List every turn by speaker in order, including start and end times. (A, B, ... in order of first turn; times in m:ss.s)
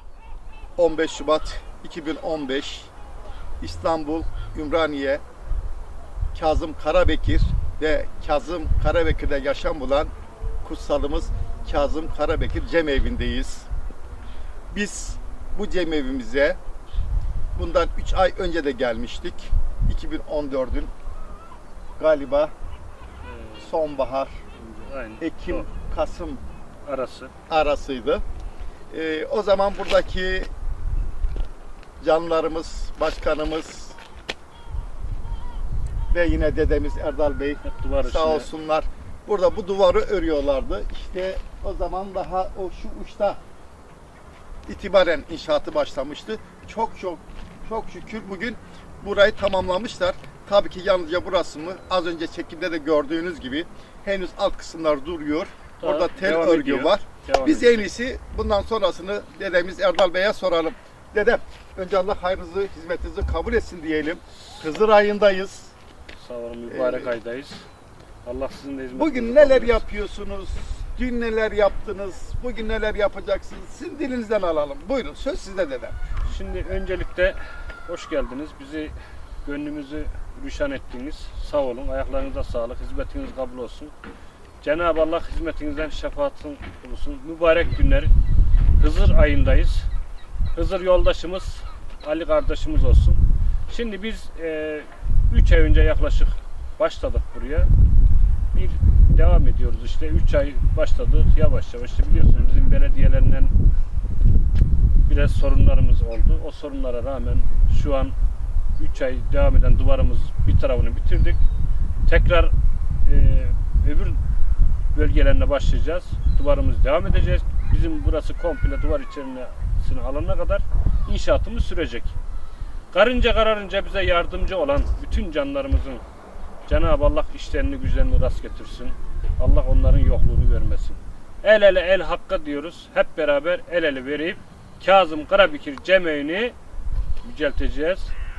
0:00.8-0:02.9 A
0:03.6-0:05.2 A
0:06.3-0:10.1 A
0:10.6-0:13.7 A
0:14.7-0:16.6 A
0:17.6-0:20.9 A
0:22.0-0:22.5 A
0:23.2-0:23.7 B
0:23.6-0:24.4 A
0:24.6-0:25.7 B
0:25.2-0:26.4 A
0:26.8-0:27.3 B
0:27.5-0:28.2 A
0:28.9-0:30.5 A
0:32.0-0:34.0 A
0:36.1-0:43.4 A
0:37.6-0:38.5 B
0:44.7-1:05.7 A
0:55.8-0:57.8 B
1:06.2-1:07.6 B
1:06.7-1:07.1 A
1:08.2-1:09.8 B
1:08.9-1:16.0 A
1:16.2-1:23.9 B
1:24.6-1:28.1 B
1:28.8-1:29.9 B
1:30.5-1:37.7 B
1:38.5-1:43.5 B
1:45.0-1:48.2 B
1:48.8-1:51.4 B
1:52.1-1:52.5 B
1:53.0-1:54.2 B
1:54.9-2:02.1 B
2:02.9-2:06.0 B
2:06.7-2:16.6 B
2:17.2-2:18.1 B